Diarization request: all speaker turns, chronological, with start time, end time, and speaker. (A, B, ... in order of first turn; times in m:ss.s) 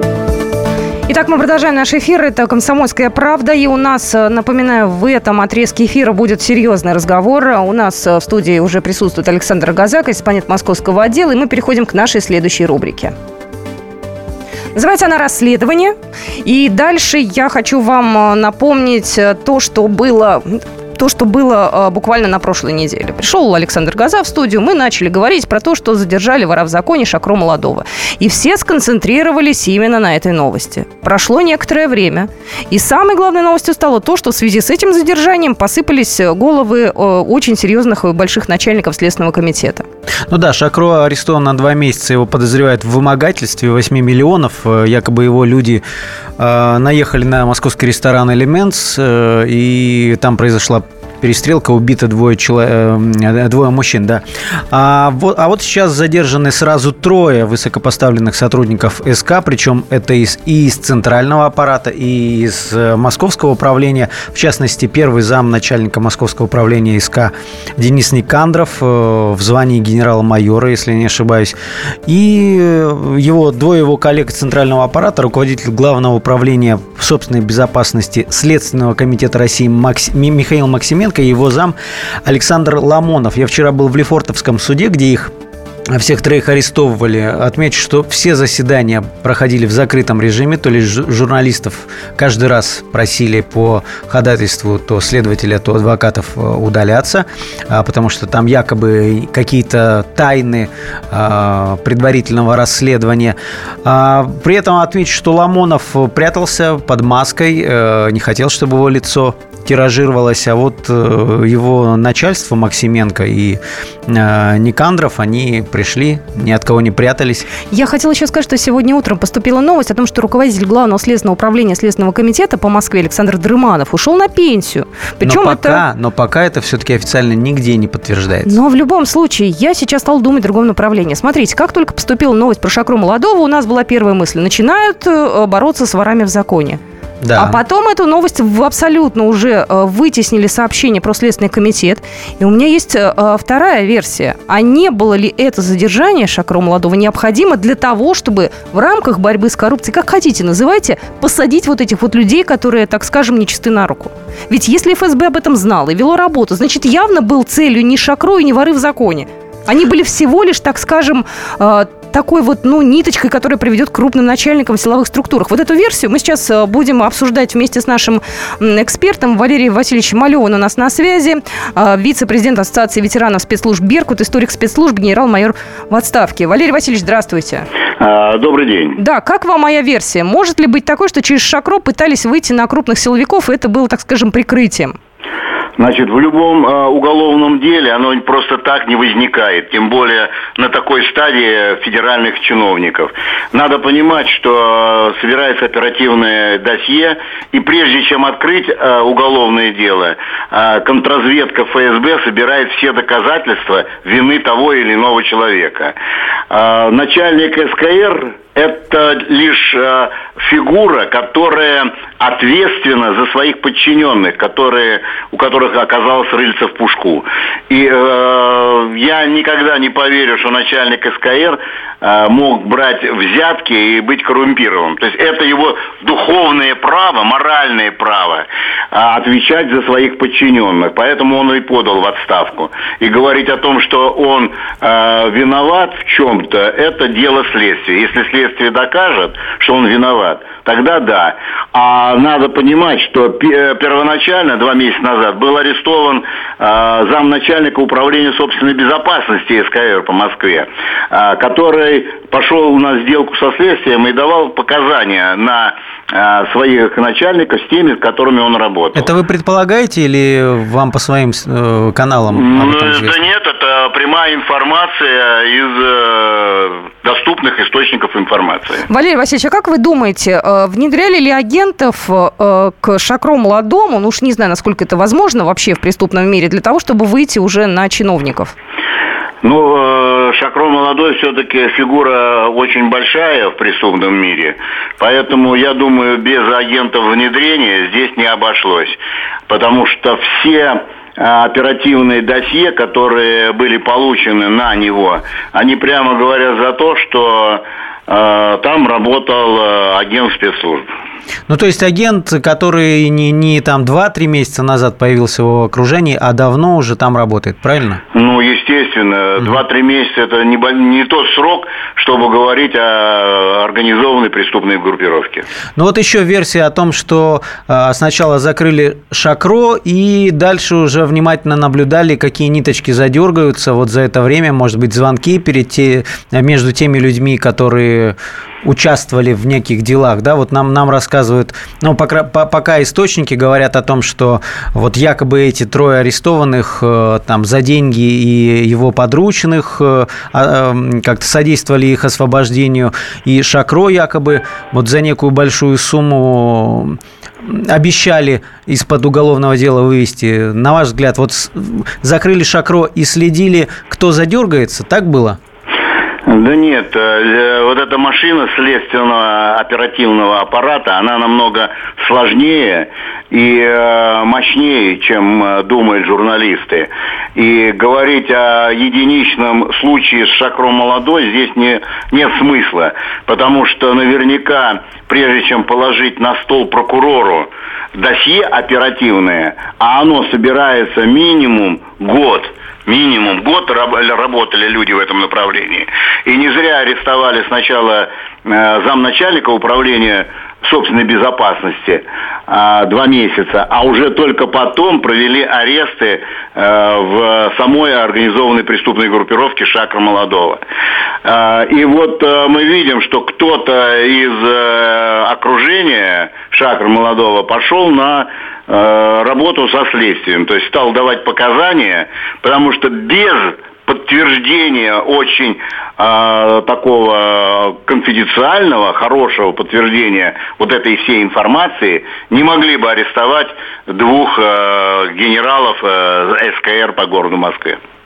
0:01.1-0:13.1 A
0:14.8-0:39.8 A
0:40.3-0:45.8 B
0:46.4-1:25.3 B
1:25.9-1:57.5 B
1:57.7-2:05.8 A
2:05.2-2:08.6 B
2:08.4-2:16.8 A
2:17.2-2:17.6 B
2:17.4-2:57.7 A
2:58.0-2:59.0 C
2:59.0-3:05.0 A
3:05.8-3:26.0 C
3:26.5-4:19.1 C
4:18.9-4:23.2 B
4:22.3-4:28.8 C
4:28.9-4:38.5 A
4:39.4-5:00.9 C
5:01.5-5:08.0 B
5:08.1-5:15.4 C
5:15.8-5:55.4 B
5:56.3-6:40.6 C
6:41.2-7:07.8 C